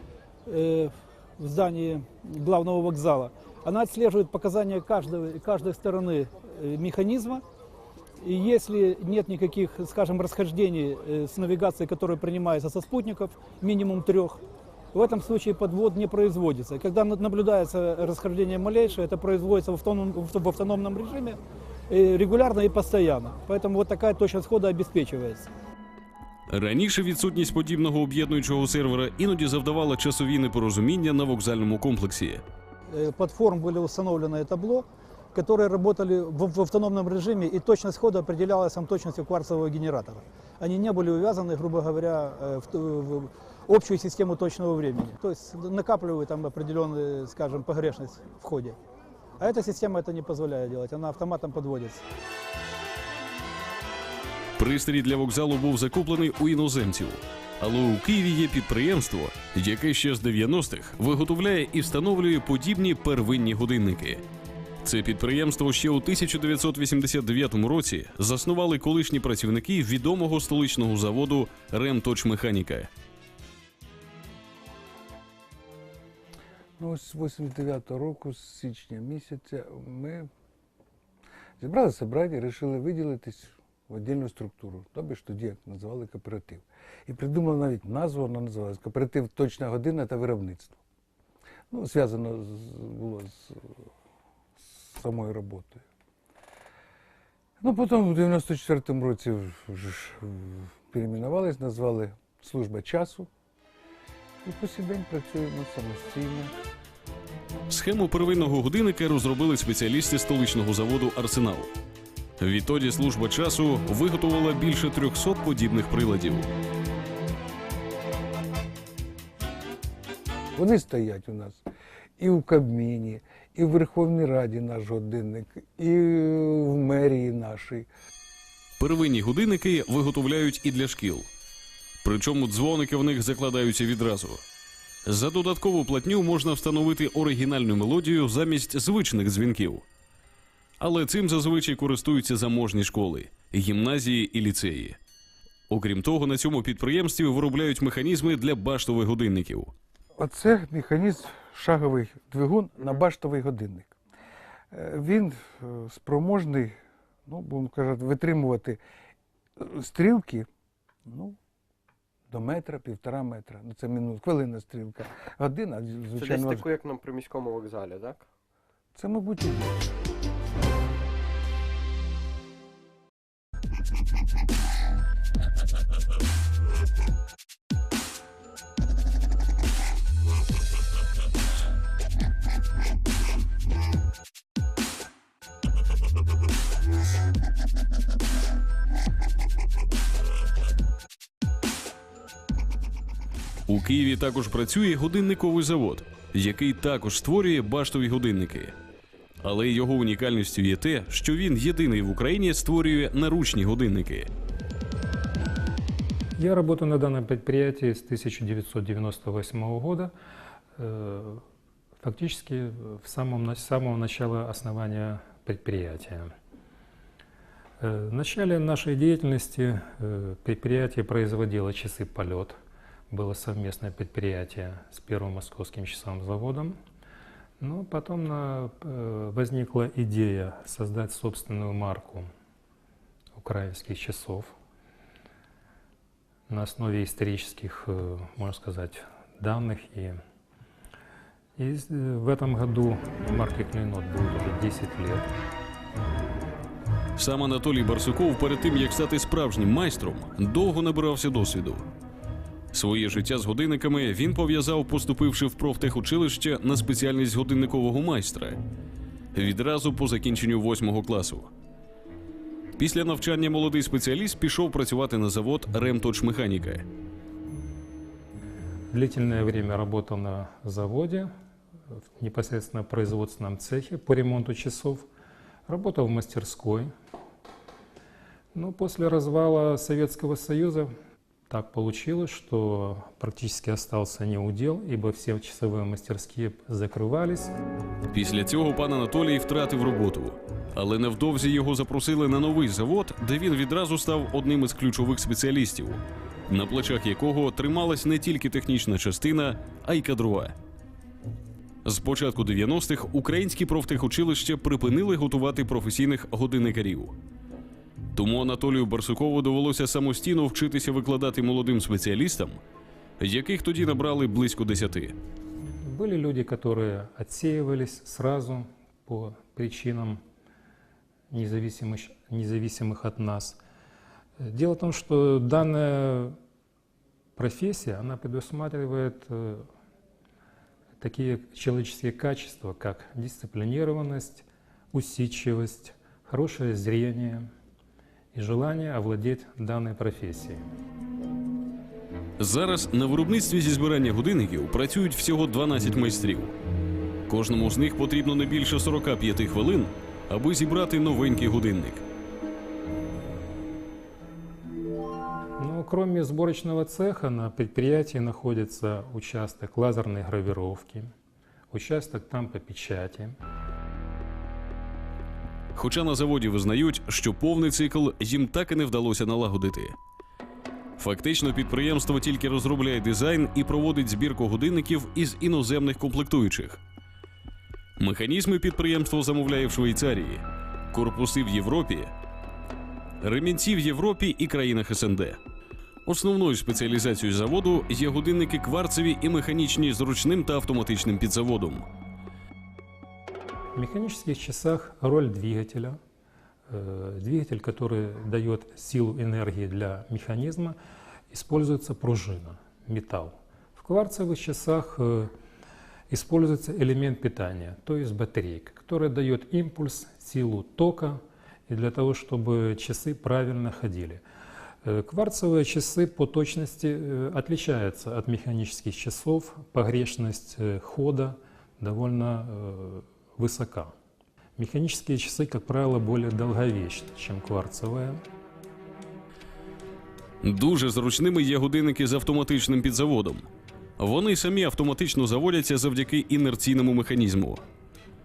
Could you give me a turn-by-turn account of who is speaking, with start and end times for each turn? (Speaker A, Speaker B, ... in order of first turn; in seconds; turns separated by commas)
Speaker A: 0.5-7.4, Speaker A: 8.2-14.4, Speaker A: 14.9-25.5, Speaker B: 26.5-32.4, Speaker A: 32.9-48.8, Speaker A: 49.4-52.0, Speaker B: 54.6-64.2, Speaker B: 64.8-72.9, Speaker C: 76.8-80.3, Speaker C: 81.6-90.8, Speaker C: 91.7-93.8, Speaker C: 94.7-95.8, Speaker C: 97.6-103.3, Speaker C: 104.4-106.5, Speaker B: 107.7-111.7, Speaker B: 112.4-116.5, Speaker C: 120.6-121.6, Speaker C: 122.2-127.9, Speaker B: 128.8-131.3, Speaker B: 132.0-134.4, Speaker B: 135.1-139.8, Speaker B: 140.8-145.0, Speaker B: 145.7-149.7, Speaker C: 150.2-153.9, Speaker C: 154.7-158.8, Speaker C: 159.6-160.5, Speaker C: 161.1-161.4, Speaker C: 162.3-166.7, Speaker D: 166.2-168.3, Speaker C: 168.9-170.0, Speaker B: 193.7-198.8, Speaker B: 199.4-204.3, Speaker E: 206.4-210.1, Speaker E: 210.8-211.4, Speaker E: 212.0-216.3, Speaker E: 217.8-222.6, Speaker E: 223.1-226.8, Speaker E: 227.6-232.3, Speaker E: 233.4-234.5, Speaker E: 236.5-240.2, Speaker E: 241.6-245.3, Speaker B: 247.2-251.9, Speaker B: 252.7-258.6, Speaker B: 259.3-261.5, Speaker B: 262.8-266.9, Speaker E: 268.9-271.3, Speaker E: 272.0-275.1, Speaker E: 275.7-276.9, Speaker E: 278.5-280.9, Speaker E: 281.5-287.5, Speaker B: 288.1-300.6, Speaker B: 301.9-307.2, Speaker B: 308.1-312.6, Speaker B: 313.2-315.1, Speaker E: 315.8-320.2, Speaker E: 321.3-323.6, Speaker E: 324.4-326.4, Speaker E: 327.4-329.7, Speaker E: 331.0-337.5, Speaker E: 338.3-340.7, Speaker B: 342.4-346.5, Speaker B: 347.3-352.0, Speaker E: 355.6-361.1, Speaker E: 361.7-363.4, Speaker B: 365.8-370.0, Speaker B: 371.0-376.8, Speaker B: 378.0-382.1, Speaker B: 383.2-385.4, Speaker B: 386.1-391.9, Speaker E: 393.8-396.0, Speaker E: 396.7-400.8, Speaker E: 401.3-405.3, Speaker E: 406.1-414.2, Speaker E: 414.8-423.9, Speaker E: 424.6-428.2, Speaker B: 430.4-433.5, Speaker B: 434.0-437.6